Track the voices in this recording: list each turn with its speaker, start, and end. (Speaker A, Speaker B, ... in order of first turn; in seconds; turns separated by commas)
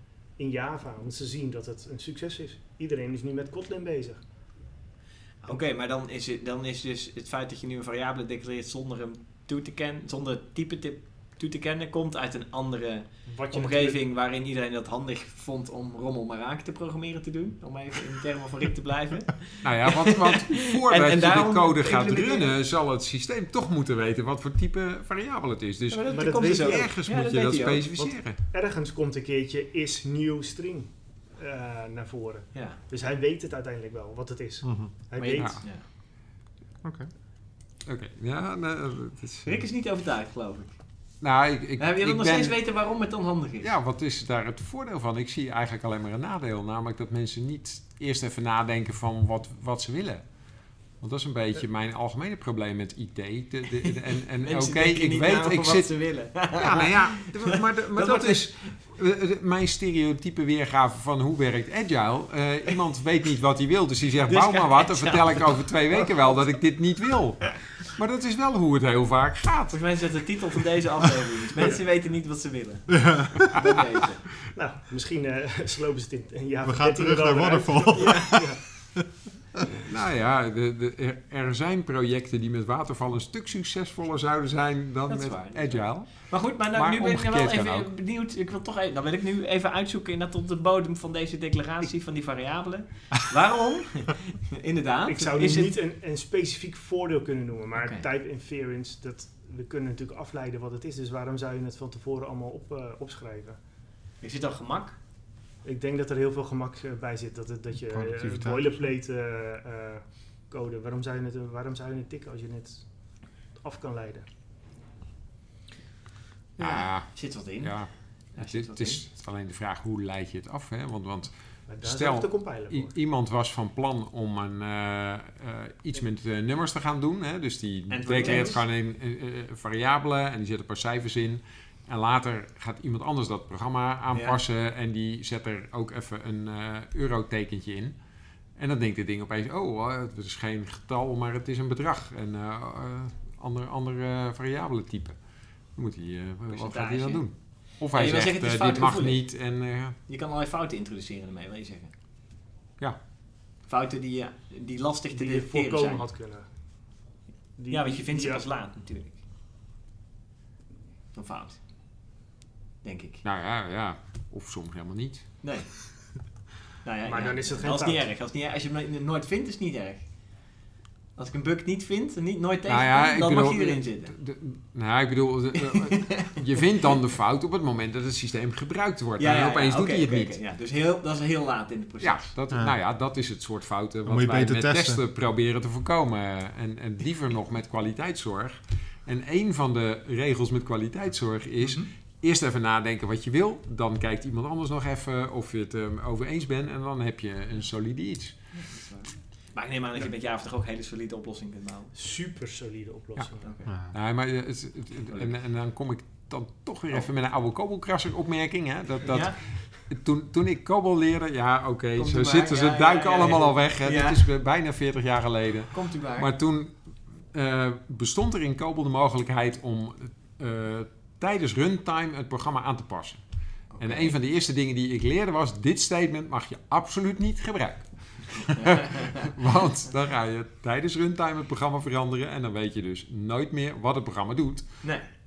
Speaker A: 0.4-4.2, Speaker B: 5.4-22.5, Speaker A: 13.3-14.0, Speaker C: 19.6-28.4, Speaker B: 25.9-27.9, Speaker A: 26.1-26.9, Speaker A: 28.0-35.7, Speaker B: 32.5-32.8, Speaker D: 34.6-34.9, Speaker B: 35.1-35.8, Speaker D: 36.8-37.1, Speaker C: 37.9-39.6, Speaker B: 39.4-40.8, Speaker C: 41.2-42.6, Speaker B: 41.8-43.7, Speaker C: 43.6-50.2, Speaker C: 51.0-69.8, Speaker B: 53.8-58.7, Speaker B: 64.3-66.5, Speaker B: 69.7-74.2, Speaker D: 72.9-73.8, Speaker A: 74.5-78.6, Speaker D: 76.6-79.0, Speaker B: 77.9-78.4, Speaker C: 79.8-87.9, Speaker B: 85.1-95.7, Speaker A: 95.0-103.6, Speaker B: 97.8-98.0, Speaker B: 104.2-105.0, Speaker A: 105.6-112.8, Speaker D: 107.9-108.8, Speaker A: 113.6-114.2, Speaker B: 116.6-119.0, Speaker C: 116.6-137.9, Speaker A: 121.7-122.9, Speaker B: 127.9-128.6, Speaker B: 134.1-134.4, Speaker C: 138.6-145.2, Speaker C: 145.7-149.9, Speaker B: 146.5-149.2, Speaker B: 150.1-151.9, Speaker B: 153.7-156.0, Speaker A: 155.1-156.5, Speaker A: 157.6-158.4, Speaker B: 157.7-159.2, Speaker B: 161.1-161.6, Speaker B: 162.8-163.2, Speaker C: 163.2-165.3, Speaker B: 165.4-165.7, Speaker B: 166.8-170.1, Speaker A: 167.1-168.0, Speaker B: 171.2-174.1, Speaker C: 172.7-180.3, Speaker B: 175.6-176.6, Speaker B: 179.2-182.3, Speaker C: 182.0-198.3, Speaker D: 184.1-185.0, Speaker B: 198.5-201.9, Speaker A: 201.9-203.5, Speaker B: 203.4-203.7, Speaker D: 203.7-203.9, Speaker C: 203.9-223.2, Speaker B: 205.1-205.3, Speaker B: 209.0-209.4, Speaker B: 211.9-214.2, Speaker B: 215.7-216.3, Speaker B: 223.7-224.1, Speaker C: 223.8-234.8, Speaker B: 228.6-229.1